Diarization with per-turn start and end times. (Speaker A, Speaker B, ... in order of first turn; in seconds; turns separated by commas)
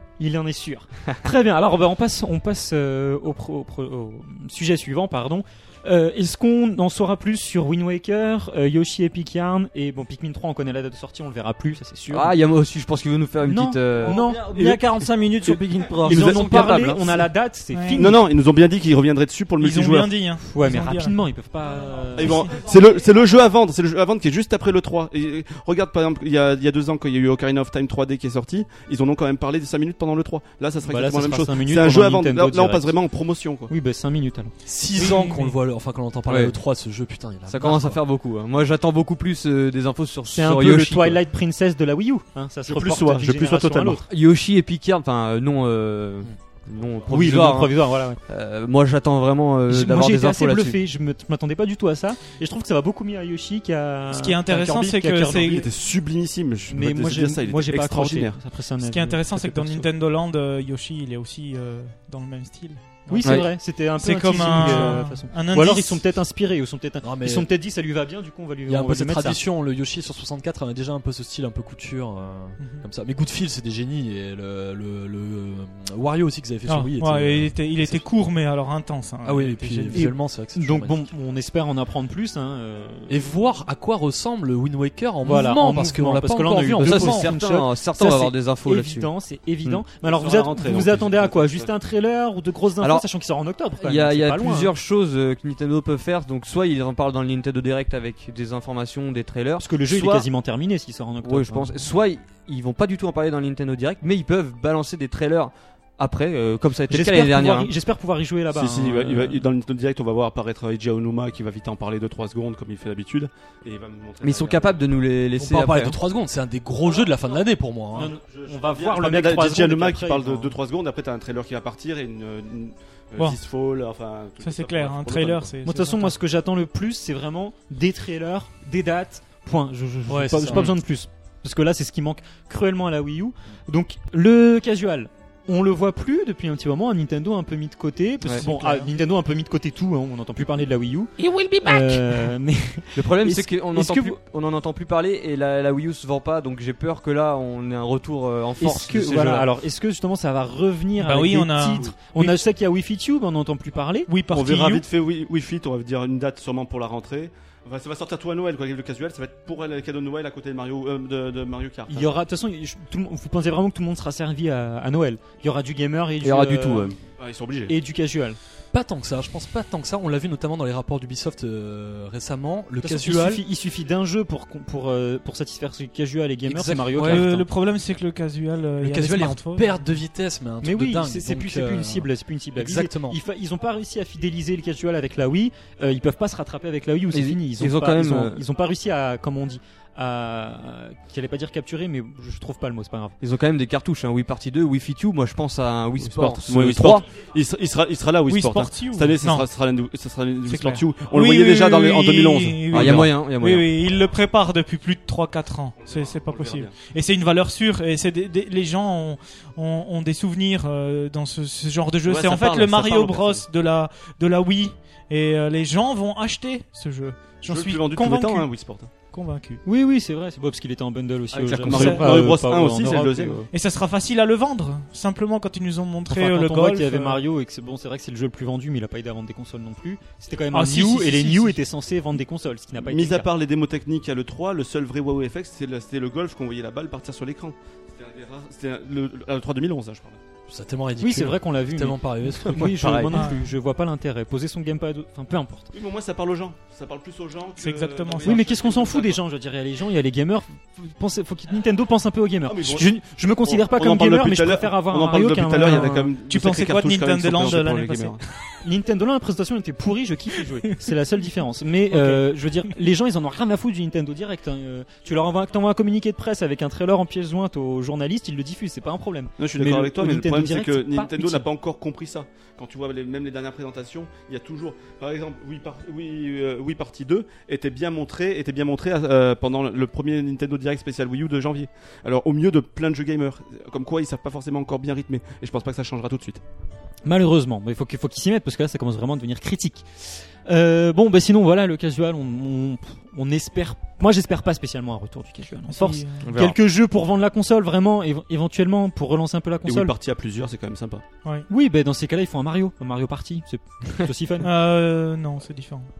Speaker A: 0.2-12.3, Speaker B: 12.1-14.2, Speaker A: 13.4-14.5, Speaker C: 13.9-16.4, Speaker D: 15.4-17.2, Speaker A: 16.0-18.2, Speaker B: 16.1-17.0, Speaker E: 17.7-18.1, Speaker D: 18.0-20.1, Speaker E: 19.6-21.2, Speaker A: 20.4-22.7, Speaker D: 22.2-33.7, Speaker E: 22.3-22.6, Speaker A: 30.9-33.0, Speaker A: 33.7-34.5, Speaker F: 34.6-38.0, Speaker E: 34.9-35.6, Speaker B: 36.3-36.6, Speaker B: 37.5-41.2, Speaker A: 40.3-44.1, Speaker D: 42.7-44.0, Speaker B: 44.1-50.8, Speaker A: 47.1-48.2, Speaker A: 49.7-55.7, Speaker E: 54.1-55.7, Speaker D: 55.3-58.4, Speaker A: 56.7-59.9, Speaker E: 58.8-66.0, Speaker A: 63.1-69.4, Speaker B: 63.2-63.5, Speaker F: 67.0-67.5, Speaker F: 68.7-78.1, Speaker E: 72.6-72.9, Speaker E: 76.7-80.1, Speaker F: 79.2-81.1, Speaker A: 79.9-83.3, Speaker F: 83.1-87.3, Speaker A: 85.2-94.7, Speaker B: 86.8-89.1, Speaker D: 90.0-91.7, Speaker B: 93.8-100.3, Speaker A: 99.6-101.9, Speaker B: 101.2-107.7, Speaker A: 106.9-109.5, Speaker D: 108.5-114.8, Speaker B: 114.2-116.0, Speaker F: 115.4-118.1, Speaker A: 117.9-120.6, Speaker D: 118.0-125.5, Speaker E: 124.4-126.1, Speaker A: 125.7-144.2, Speaker F: 130.1-130.8, Speaker B: 142.9-149.5, Speaker A: 148.6-154.1, Speaker E: 151.0-152.4, Speaker E: 154.1-154.8, Speaker D: 154.3-162.1, Speaker A: 161.9-166.9, Speaker B: 166.2-167.0, Speaker D: 167.2-167.8, Speaker A: 167.7-168.4, Speaker F: 168.7-173.4, Speaker A: 172.8-177.5, Speaker F: 176.5-177.3, Speaker E: 177.0-179.7, Speaker F: 178.8-183.2, Speaker A: 180.6-193.2, Speaker B: 187.1-188.4, Speaker B: 193.2-197.1, Speaker D: 196.1-203.2, Speaker E: 198.3-199.5, Speaker E: 200.5-218.5, Speaker B: 202.7-203.7, Speaker D: 205.8-206.8, Speaker D: 212.1-213.5, Speaker D: 217.4-218.9, Speaker E: 219.1-219.6, Speaker A: 219.7-223.5, Speaker D: 221.3-223.4, Speaker B: 221.5-221.8, Speaker E: 221.7-222.2, Speaker E: 223.5-227.2, Speaker A: 226.1-233.3, Speaker E: 230.5-231.6, Speaker D: 232.8-240.2, Speaker F: 240.5-242.9, Speaker A: 241.0-245.7, Speaker B: 242.4-243.2, Speaker E: 243.1-243.5, Speaker D: 245.7-249.2, Speaker E: 247.6-248.4, Speaker A: 248.2-256.1, Speaker D: 252.5-258.2, Speaker E: 255.6-258.2, Speaker A: 258.6-271.5, Speaker E: 261.9-262.2, Speaker D: 269.4-286.4, Speaker A: 287.1-299.9, Speaker E: 295.7-296.3, Speaker B: 296.2-296.6, Speaker D: 299.7-301.1, Speaker A: 301.5-304.5, Speaker E: 304.4-305.9